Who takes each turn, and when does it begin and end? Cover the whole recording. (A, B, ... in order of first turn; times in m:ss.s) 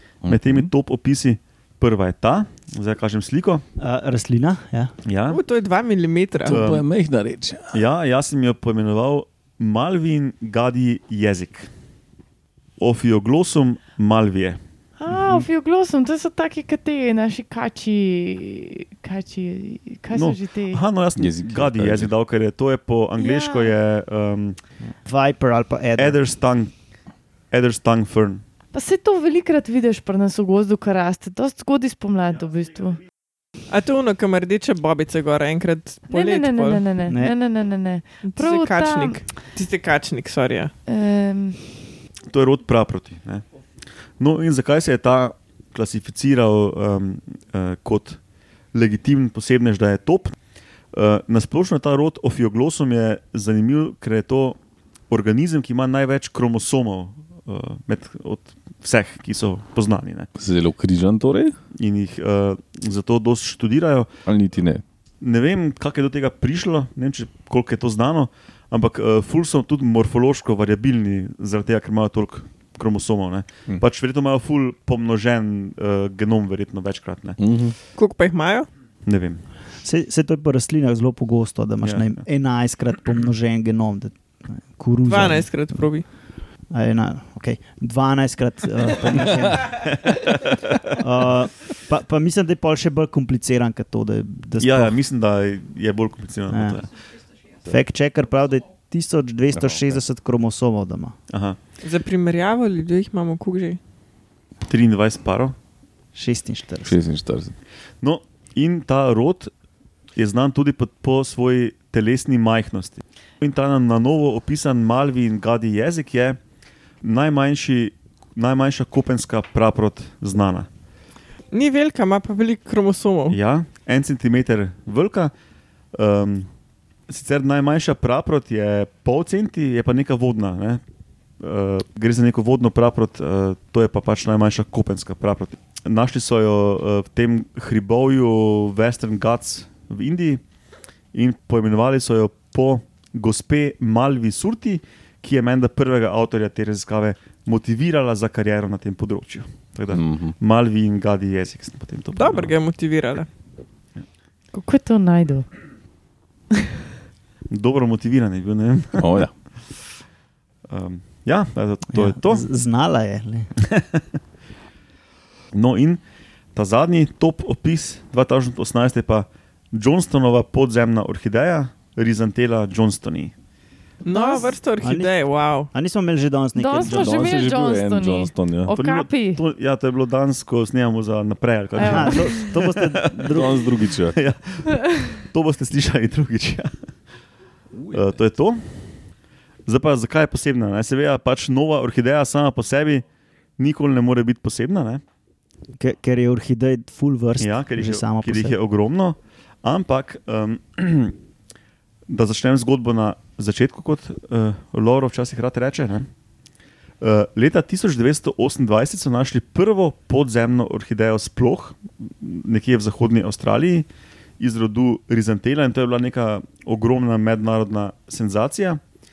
0:00.2-0:00.7 A
0:00.2-0:03.6 B
0:03.8-0:04.9 C
0:05.0-0:05.4 B
0:05.3-0:06.6 D
0:06.4-0:07.8 A
0:06.5-0:06.9 B
0:07.7-0:11.7 B
0:12.8-0:15.5 B
0:15.0-0:20.8 E
0:20.1-0:24.6 B
0:21.2-0:22.2 A
0:23.2-0:23.7 E
0:25.0-0:26.2 C
0:26.0-0:26.8 B
0:27.5-0:28.4 B
0:28.7-0:33.0 E
0:33.7-0:36.8 D
0:36.1-0:39.2 E
0:37.1-0:37.4 C
0:38.2-0:40.7 D
0:40.9-0:41.9 E
0:42.3-0:43.4 B
0:44.2-0:48.2 B
0:48.7-0:50.4 B
0:50.9-0:54.6 B
0:55.1-1:00.3 B
1:00.4-1:01.6 A
1:01.8-1:04.1 B
1:04.2-1:04.8 A
1:05.2-1:17.4 B
1:17.4-1:17.8 A
1:18.0-1:18.7 D
1:19.0-1:19.4 B
1:19.8-1:25.9 C
1:21.8-1:22.2 B
1:25.1-1:26.0 D
1:26.7-1:29.9 C
1:29.7-1:31.0 B
1:31.0-1:35.0 C
1:34.6-1:36.9 B
1:36.5-1:36.8 C
1:37.6-1:41.2 C
1:39.5-1:40.0 A
1:41.3-1:41.6 B
1:41.8-1:43.8 D
1:44.7-1:45.6 B
1:46.1-1:47.0 C
1:46.8-1:47.6 A
1:48.0-1:49.5 B
1:50.2-1:56.4 B
1:57.0-2:00.7 B
2:01.5-2:03.4 D
2:03.3-2:05.3 B
2:05.9-2:06.5 B
2:07.1-2:10.8 B
2:11.4-2:20.4 B
2:21.1-2:32.6 B
2:29.9-2:30.4 A
2:32.1-2:33.3 D
2:34.5-2:35.5 E
2:37.5-2:39.3 B
2:39.0-2:39.3 A
2:40.7-2:42.5 B
2:41.9-2:43.5 C
2:43.6-2:44.0 B
2:45.5-2:46.0 B
2:46.5-2:53.3 B
2:54.0-2:55.7 D
2:54.1-2:54.6 E
2:54.8-2:57.5 C
2:56.6-2:59.4 E
2:56.8-2:58.7 A
2:58.7-3:06.7 B
3:01.8-3:02.6 E
3:01.8-3:03.7 C
3:03.3-3:04.2 A
3:07.7-3:08.2 A
3:07.9-3:09.0 B
3:09.7-3:13.0 B
3:13.6-3:15.0 B
3:15.8-3:18.6 C
3:17.4-3:21.2 B
3:22.1-3:26.1 B
3:27.0-3:33.9 B
3:34.4-3:38.8 B